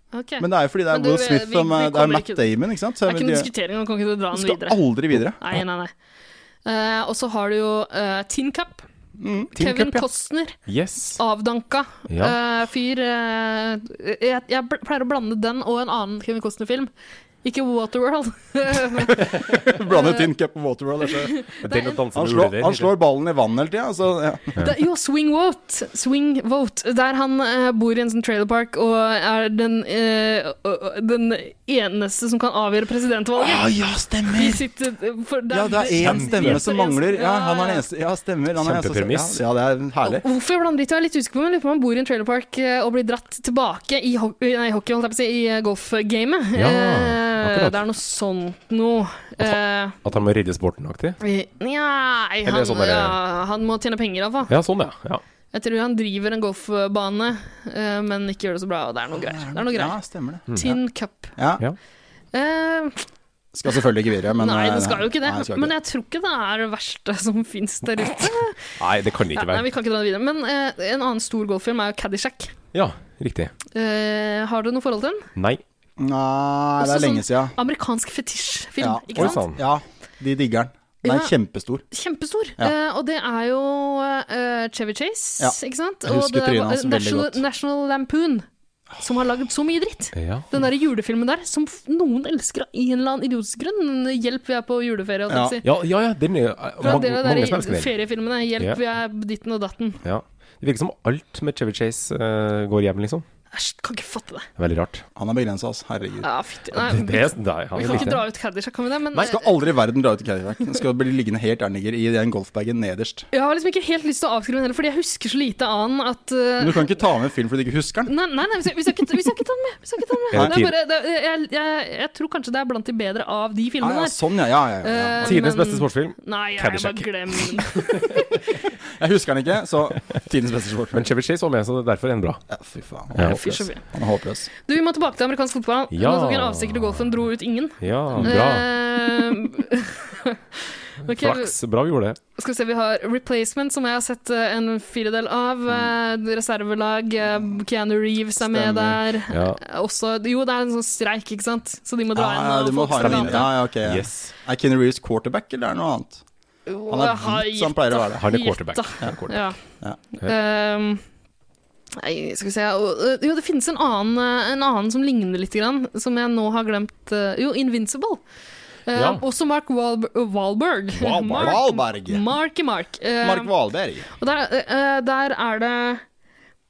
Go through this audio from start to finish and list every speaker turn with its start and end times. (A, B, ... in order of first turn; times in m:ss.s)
0:00.1-0:02.5 A
0:00.4-0:03.5 B
0:03.0-0:05.9 A
0:04.3-0:05.4 B
0:06.7-0:08.8 A
0:09.2-0:10.0 B
0:09.6-0:10.6 A
0:09.6-0:10.0 C
0:10.7-0:11.2 C
0:11.2-0:16.9 A
0:12.1-0:12.4 C
0:17.4-0:20.2 A
0:19.2-0:21.5 B
0:21.3-0:21.9 A
0:21.6-0:22.9 C
0:22.1-0:24.6 B
0:24.6-0:33.7 A
0:33.4-0:34.6 B
0:34.4-0:37.8 A
0:35.5-0:40.2 B
0:36.0-0:36.7 C
0:38.6-0:39.4 C
0:40.0-0:50.0 A
0:46.6-0:47.8 C
0:49.4-0:51.2 C
0:51.2-0:54.5 A
0:52.4-0:53.2 C
0:54.5-0:55.2 C
0:55.5-1:00.0 A
0:59.2-1:00.6 B
1:00.5-1:00.8 C
1:00.5-1:01.4 A
1:01.4-1:01.6 B
1:02.3-1:03.0 A
1:03.5-1:05.7 B
1:04.4-1:08.8 A
1:08.8-1:09.6 C
1:09.3-1:12.5 A
1:12.7-1:13.5 C
1:13.7-1:15.3 A
1:15.4-1:15.6 C
1:16.0-1:17.6 B
1:16.8-1:19.4 A
1:18.8-1:21.8 B
1:19.2-1:19.6 C
1:21.0-1:21.3 A
1:21.9-1:28.4 A
1:25.4-1:27.4 B
1:29.0-1:35.7 A
1:30.2-1:30.4 C
1:35.3-1:35.6 B
1:35.6-1:37.9 C
1:36.8-1:40.0 A
1:40.0-1:43.2 C
1:43.5-1:44.5 A
1:44.6-1:45.0 C
1:45.2-1:46.3 B
1:46.2-1:49.6 A
1:46.7-1:48.2 C
1:49.1-1:53.3 B
1:53.3-1:57.0 A
1:56.6-1:58.1 B
1:58.1-2:04.2 A
2:00.3-2:00.7 B
2:00.3-2:00.7 C
2:03.8-2:05.4 B
2:04.8-2:08.3 A
2:05.2-2:08.2 C
2:08.8-2:11.1 B
2:10.9-2:12.4 C
2:12.5-2:14.5 B
2:13.2-2:13.8 A
2:14.6-2:21.5 A
2:15.9-2:17.1 C
2:17.8-2:18.7 C
2:21.0-2:22.2 C
2:22.4-2:33.5 A
2:27.2-2:27.6 B
2:28.4-2:29.0 B
2:29.3-2:29.6 C
2:32.1-2:36.2 B
2:33.0-2:34.3 C
2:36.7-2:39.6 A
2:36.9-2:38.3 B
2:38.2-2:39.5 C
2:40.1-2:41.0 A
2:42.0-2:48.2 A
2:48.9-2:53.5 A
2:48.9-2:49.2 C
2:51.0-2:51.6 C
2:51.2-2:52.3 B
2:53.2-2:54.1 B
2:54.1-2:56.0 A